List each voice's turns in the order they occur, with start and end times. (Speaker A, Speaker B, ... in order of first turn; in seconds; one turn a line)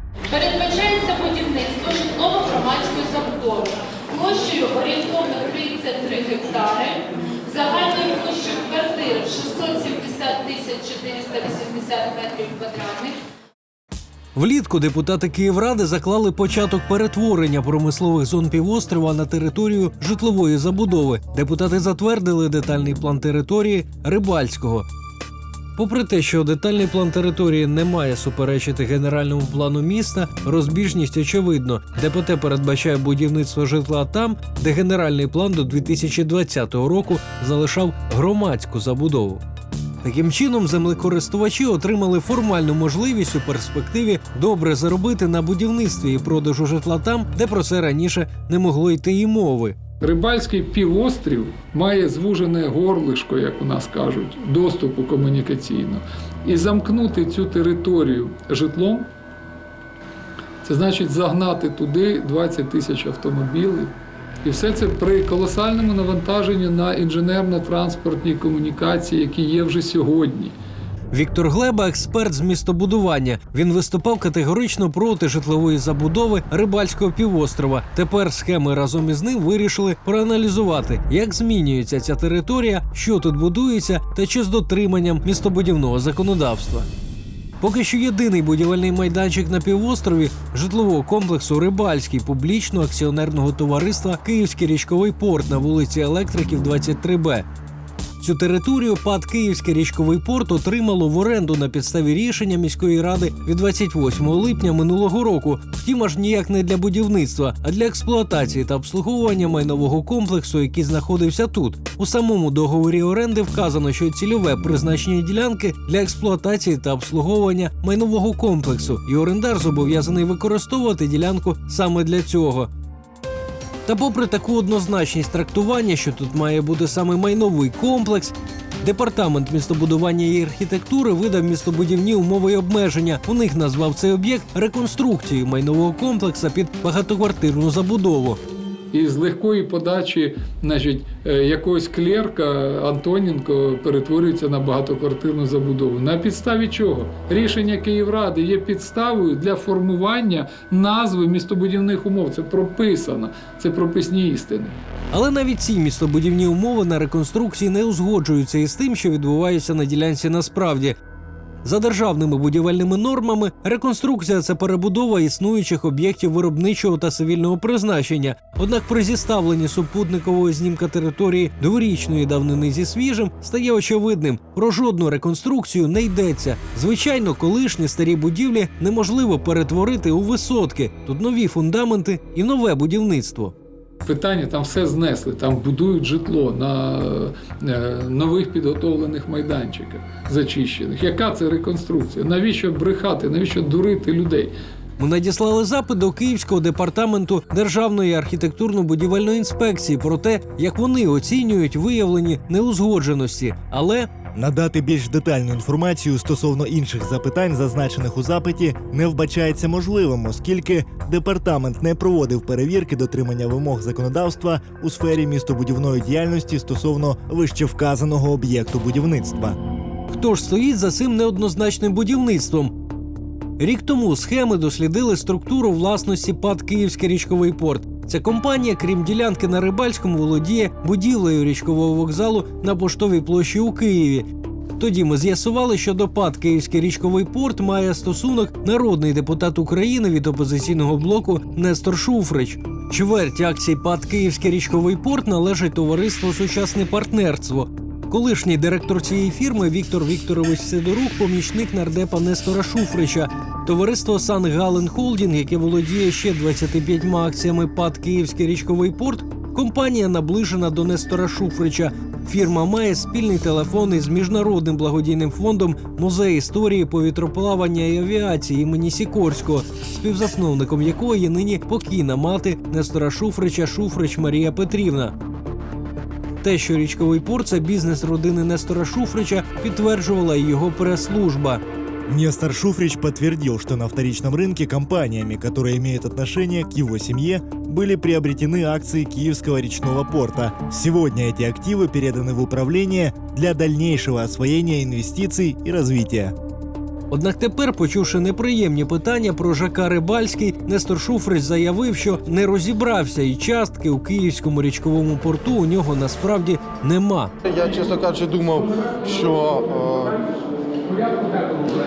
Speaker A: 0.3-13.2
Speaker B: 14.3-24.9
Speaker B: 25.8-39.4
Speaker B: 40.0-49.8
Speaker C: 50.0-59.1
Speaker C: 60.6-70.6
Speaker B: 71.1-86.9
Speaker B: 87.6-97.5
Speaker B: 98.2-122.7
Speaker B: 123.9-138.4
Speaker C: 138.9-154.8
Speaker B: 155.1-161.0
Speaker B: 161.6-183.5
Speaker C: 184.1-194.5
Speaker B: 195.0-204.1
Speaker D: 204.3-219.6
Speaker B: 220.1-222.8
Speaker B: 223.6-234.3
Speaker B: 234.8-275.1
Speaker B: 276.4-281.6
Speaker D: 282.1-296.4
Speaker B: 297.1-307.3
Speaker E: 307.5-310.2